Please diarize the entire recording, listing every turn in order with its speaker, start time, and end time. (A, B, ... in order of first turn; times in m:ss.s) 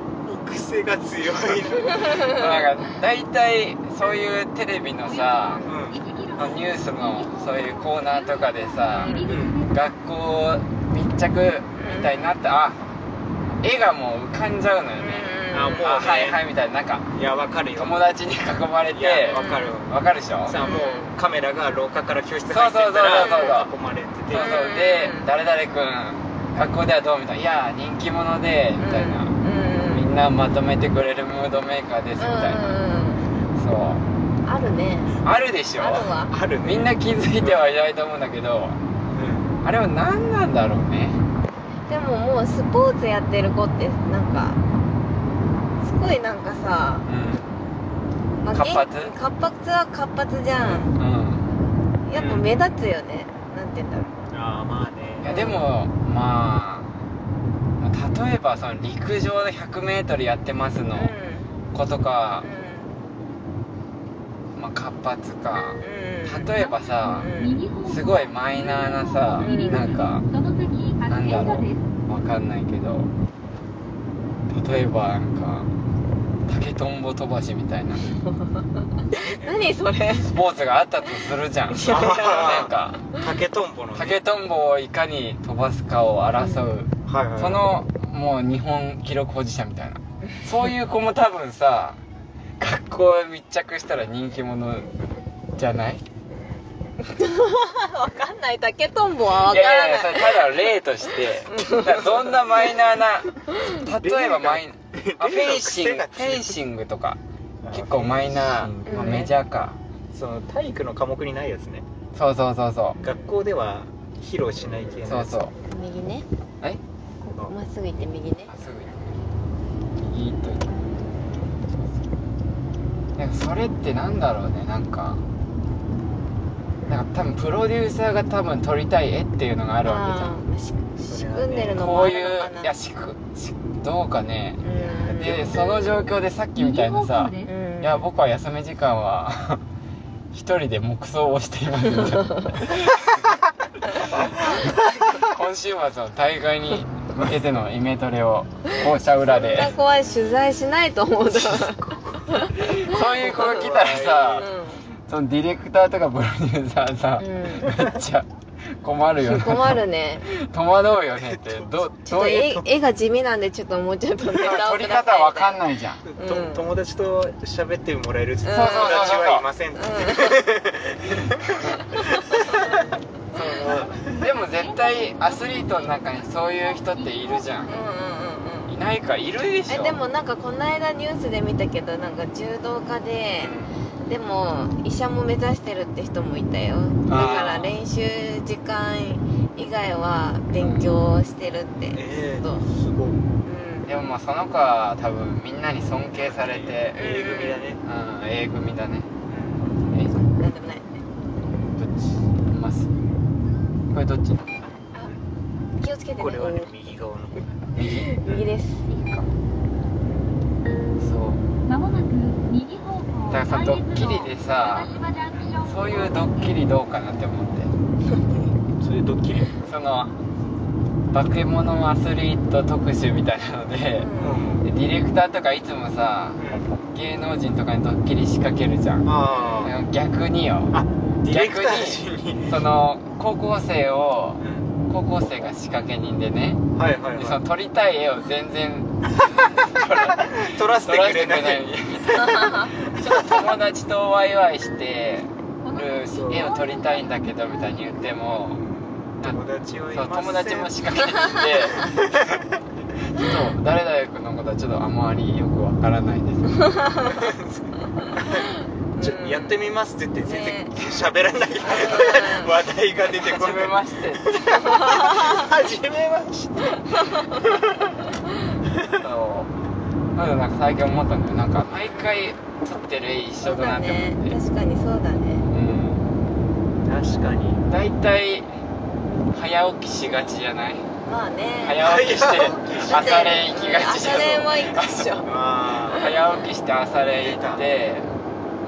0:00.2-0:02.2 A
0:01.9-0:02.7 B
0:02.0-0:05.6 C
0:05.0-0:09.9 D
0:05.5-0:05.8 B
0:05.6-0:06.0 A
0:06.3-0:12.8 C
0:08.9-0:09.3 B
0:09.3-0:09.6 A
0:11.8-0:12.3 B
0:13.6-0:17.1 C
0:15.0-0:15.9 B
0:15.5-0:16.4 A
0:17.1-0:18.0 A
0:17.8-0:20.6 C
0:18.9-0:24.6 A
0:19.3-0:19.8 B
0:20.6-0:21.1 B
0:22.5-0:23.7 C
0:23.1-0:23.7 B
0:24.3-0:29.3 C
0:24.3-0:25.3 B
0:28.8-0:30.0 B
0:29.9-0:32.8 C
0:32.2-0:33.3 B
0:33.5-0:34.0 C
0:34.4-0:35.2 B
0:35.2-0:36.1 C
0:35.8-0:36.3 B
0:36.3-0:37.6 A
0:36.6-0:38.8 C
0:39.1-0:39.6 A
0:39.6-0:41.2 C
0:41.9-0:44.6 B
0:45.8-0:47.1 B
0:47.0-0:47.6 C
0:48.4-0:50.9 B
0:48.5-0:49.1 C
0:50.6-0:51.5 C
0:52.1-0:54.2 B
0:52.1-0:52.6 A
0:54.3-0:55.3 A
0:55.2-0:56.9 C
0:55.2-0:55.6 B
0:57.8-1:01.1 C
1:00.9-1:01.5 B
1:01.7-1:02.5 C
1:02.4-1:02.9 B
1:04.5-1:07.3 C
1:05.8-1:06.5 B
1:06.5-1:11.9 D
1:07.0-1:07.6 B
1:07.8-1:10.2 C
1:09.4-1:10.0 B
1:11.1-1:13.1 C
1:14.5-1:15.7 C
1:16.4-1:18.1 C
1:19.1-1:20.3 B
1:19.1-1:19.7 A
1:20.1-1:23.0 C
1:21.8-1:24.2 A
1:23.9-1:32.0 C
1:27.0-1:27.7 A
1:32.6-1:34.9 C
1:35.6-1:36.0 C
1:37.0-1:40.4 B
1:39.3-1:49.8 C
1:41.5-1:42.3 B
1:44.0-1:46.6 A
1:47.6-1:49.4 A
1:48.8-1:49.3 B
1:50.1-1:51.8 A
1:52.1-1:53.0 C
1:53.0-1:55.4 A
1:55.1-1:55.5 C
1:55.7-1:56.2 B
1:57.2-1:58.5 B
1:58.5-1:59.2 C
2:00.0-2:02.0 C
2:03.2-2:05.2 C
2:06.9-2:10.4 C
2:09.8-2:12.7 B
2:11.0-2:11.8 A
2:11.7-2:19.6 C
2:14.6-2:15.8 B
2:14.6-2:15.6 A
2:16.6-2:17.5 D
2:17.4-2:18.0 B
2:20.3-2:23.4 C
2:22.0-2:22.4 B
2:24.0-2:29.7 C
2:24.1-2:24.6 A
2:28.7-2:33.0 B
2:31.8-2:34.5 A
2:32.6-2:34.5 C
2:34.4-2:34.9 B
2:35.0-2:42.6 C
2:37.2-2:37.7 B
2:39.2-2:40.3 B
2:41.2-2:41.9 A
2:42.1-2:45.6 B
2:44.2-2:46.0 C
2:46.0-2:52.8 A
2:46.2-2:46.7 B
2:48.4-2:50.5 B
2:48.5-2:49.4 C
2:51.2-2:51.8 C
2:51.9-2:52.8 B
2:53.3-2:54.2 A
2:53.4-2:57.7 C
2:53.6-2:57.8 D
2:57.7-2:58.7 B
2:58.7-3:00.0 C
2:59.7-3:12.6 B
3:03.4-3:03.8 C
3:07.1-3:07.8 C
3:10.5-3:10.9 C
3:11.9-3:13.2 A
3:13.4-3:13.9 B
3:13.8-3:17.0 C
3:16.2-3:17.8 A
3:16.9-3:17.6 B
3:17.8-3:19.1 C
3:19.3-3:19.7 A
3:19.8-3:20.2 C
3:20.3-3:21.0 B
3:22.5-3:22.9 C
3:23.9-3:24.6 C
3:25.8-3:26.7 B
3:26.1-3:27.6 A
3:27.7-3:28.2 C
3:27.8-3:28.9 B
3:29.0-3:29.3 C
3:31.0-3:31.4 C
3:31.6-3:36.6 D
3:33.3-3:35.0 C
3:35.6-3:37.7 C
3:38.8-3:39.5 A
3:39.6-3:40.1 C
3:41.1-3:44.1 C
3:44.0-3:44.4 B
3:44.2-3:44.7 A
3:44.6-3:49.1 C
3:46.4-3:46.7 A
3:49.0-3:49.7 A
3:49.3-3:49.7 B
3:49.6-3:56.6 C
3:50.7-3:52.6 A
3:54.4-3:54.7 A
3:56.7-3:57.4 A
3:57.2-4:08.6 C
4:00.2-4:01.7 A
4:02.2-4:02.7 B
4:02.9-4:03.4 A
4:05.6-4:08.4 D
4:06.1-4:06.5 A
4:08.6-4:10.8 A
4:09.9-4:12.0 C
4:11.8-4:12.4 A
4:13.1-4:16.8 C
4:16.6-4:17.0 B
4:17.0-4:28.0 A
4:18.9-4:19.6 B
4:20.2-4:20.7 B
4:21.6-4:22.5 B
4:23.1-4:24.6 C
4:24.4-4:25.5 B
4:26.9-4:27.4 B
4:28.6-4:29.0 A
4:29.0-4:29.5 C
4:30.1-4:34.4 C
4:31.8-4:32.3 B
4:33.4-4:35.5 B
4:35.5-4:36.0 C
4:36.8-4:37.6 A
4:37.7-4:38.5 C
4:39.3-4:40.8 C
4:41.0-4:41.8 B
4:41.6-4:45.2 C
4:41.8-4:43.0 A
4:42.8-4:46.4 B
4:45.2-4:46.1 A
4:45.9-4:48.1 C
4:47.2-4:47.6 A